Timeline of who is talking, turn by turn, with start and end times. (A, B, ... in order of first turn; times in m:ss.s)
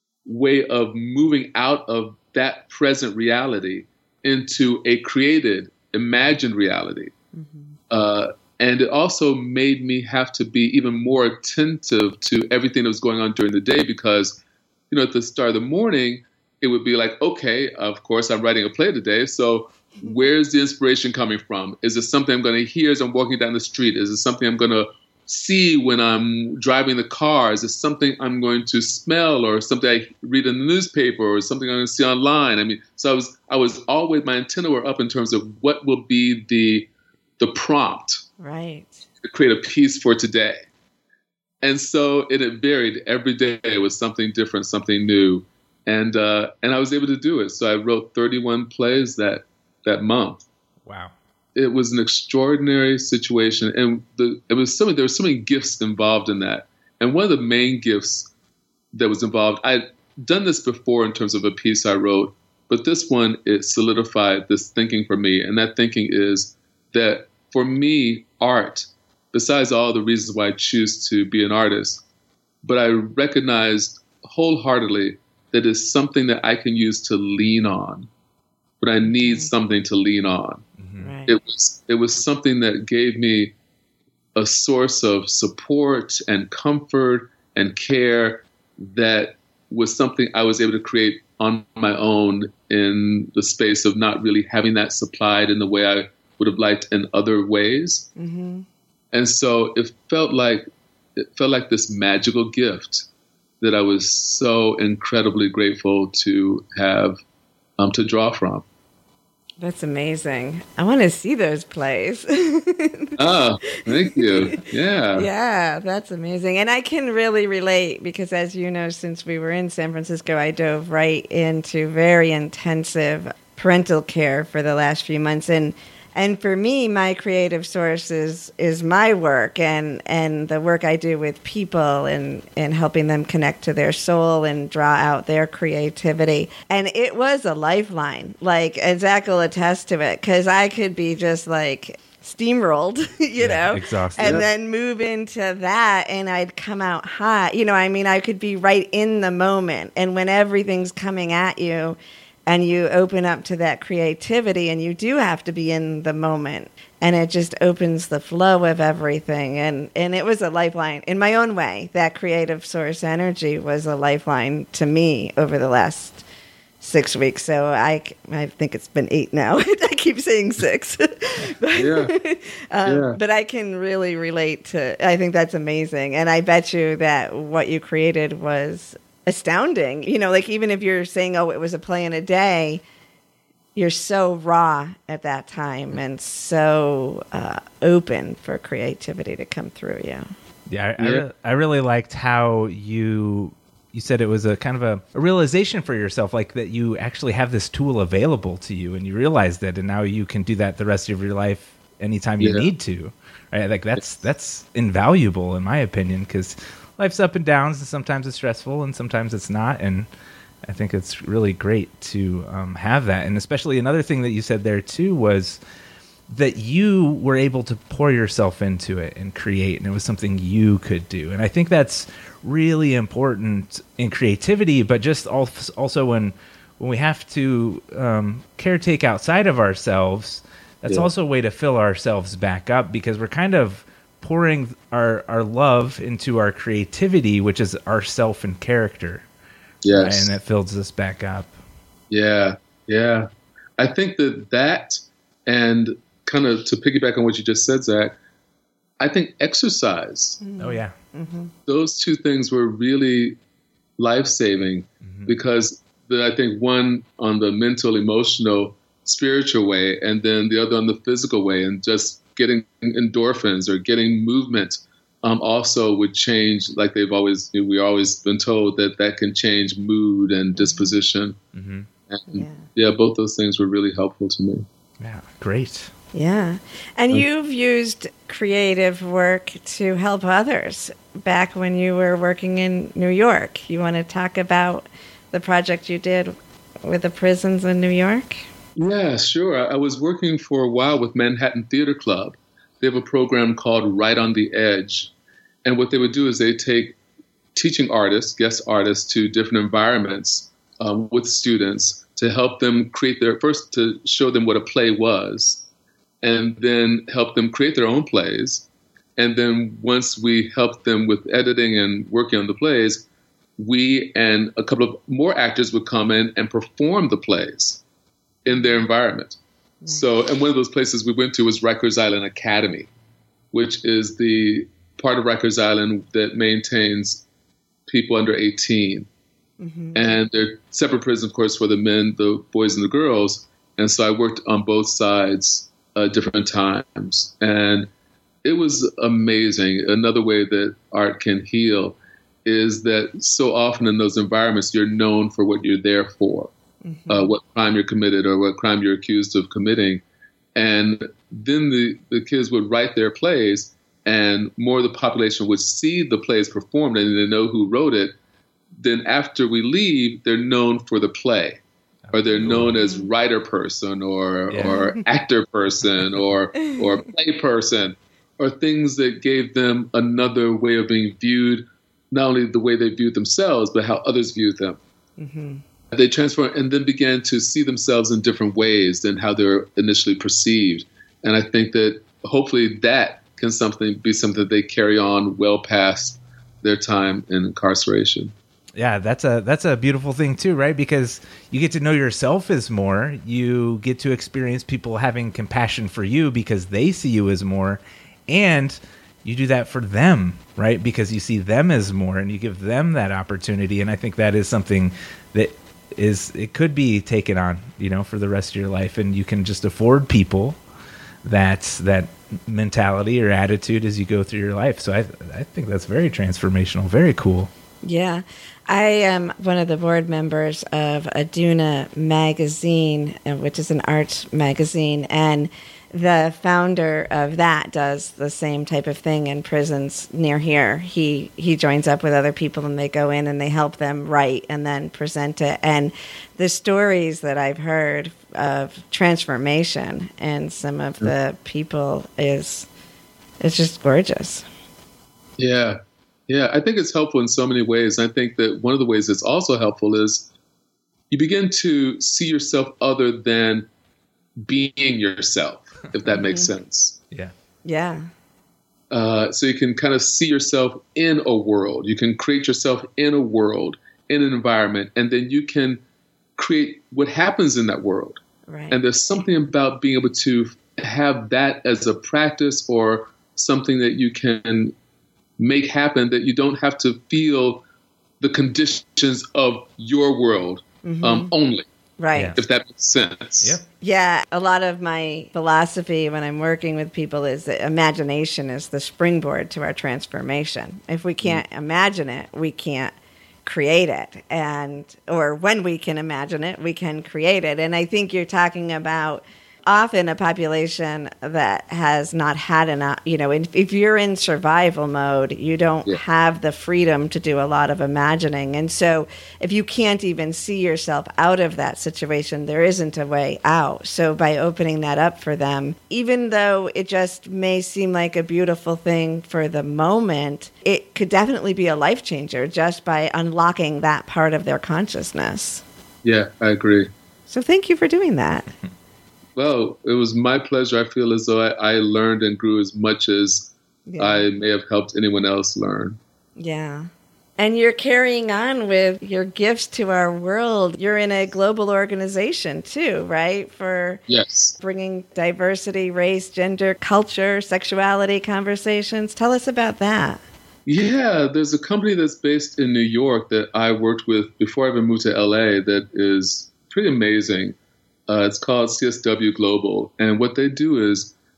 0:00.3-0:07.1 A
0:07.3-0:07.8 B
0:07.9-0:36.9 A
0:37.4-0:38.2 A
0:38.4-0:39.0 B
0:39.2-0:40.6 A
0:41.6-0:50.4 A
0:50.8-0:51.1 C
0:51.6-0:58.3 A
0:58.9-1:12.0 A
1:12.6-1:18.1 A
1:18.8-1:20.6 A
1:19.0-1:19.5 B
1:20.8-1:21.1 C
1:21.0-1:21.4 B
1:21.3-1:23.5 A
1:24.4-1:38.1 A
1:38.2-1:38.7 B
1:39.1-1:43.1 A
1:43.6-1:47.2 A
1:47.8-1:48.6 A
1:49.6-1:54.4 B
1:53.2-1:55.3 A
1:55.2-2:46.2 B
2:23.4-2:24.5 C
2:24.2-2:24.5 A
2:46.8-3:02.8 B
2:51.8-2:52.1 A
2:52.9-2:53.2 A
3:03.8-3:10.3 B
3:10.7-3:30.1 C
3:11.0-3:11.2 A
3:22.4-3:22.7 A
3:30.7-3:35.6 C
3:36.3-3:59.3 C
3:59.8-4:00.3 A
3:59.9-4:01.6 C
4:02.1-4:08.2 A
4:09.0-4:10.4 A
4:10.4-4:11.5 B
4:10.6-4:10.9 C
4:11.7-4:13.4 A
4:14.0-4:31.4 A
4:15.0-4:15.3 C
4:30.6-4:31.0 B
4:31.5-4:31.9 C
4:32.1-4:34.7 A
4:32.3-4:32.7 B
4:35.0-4:35.9 C
4:36.1-4:48.4 B
4:48.8-4:55.1 A
4:55.6-4:57.0 A
4:57.6-5:05.6 A
5:06.2-5:13.1 A
5:13.6-5:17.8 A
5:18.5-5:19.4 A
5:18.5-5:18.8 B
5:19.9-5:22.9 A
5:23.5-5:27.2 A
5:27.9-5:29.1 A
5:29.6-5:30.2 B
5:30.0-5:37.9 A
5:38.4-5:46.5 A
5:46.8-5:47.3 B
5:47.1-5:50.0 A
5:50.6-5:58.1 A
5:58.8-6:01.6 A
6:02.1-6:02.8 C
6:02.1-6:14.8 A
6:02.8-6:03.1 B
6:04.5-6:04.9 C
6:05.8-6:06.3 C
6:06.6-6:06.9 B
6:15.2-6:15.6 B
6:15.9-6:28.3 A
6:28.8-6:50.6 C
6:51.2-6:57.5 C
6:57.8-7:22.7 B
7:23.4-7:24.5 B
7:25.4-7:30.3 A
7:31.1-7:33.7 A
7:34.4-7:37.0 A
7:36.1-7:36.5 B
7:37.6-7:38.1 B
7:38.9-7:45.8 A
7:46.4-7:48.2 A
7:48.5-7:48.8 B
7:48.7-7:54.7 A
7:55.4-7:57.6 A
7:58.2-8:01.7 A
8:00.8-8:01.3 B
8:02.0-8:02.4 B
8:02.1-8:02.4 C
8:02.4-8:03.6 A
8:03.8-8:12.9 B
8:13.4-8:45.6 B
8:46.0-8:46.9 A
8:47.3-8:48.5 B
8:49.4-8:56.0 A
8:53.9-8:54.2 B
8:56.4-9:04.0 B
9:04.1-9:04.6 A
9:04.6-9:10.2 B
9:10.7-9:17.6 A
9:18.1-9:21.1 A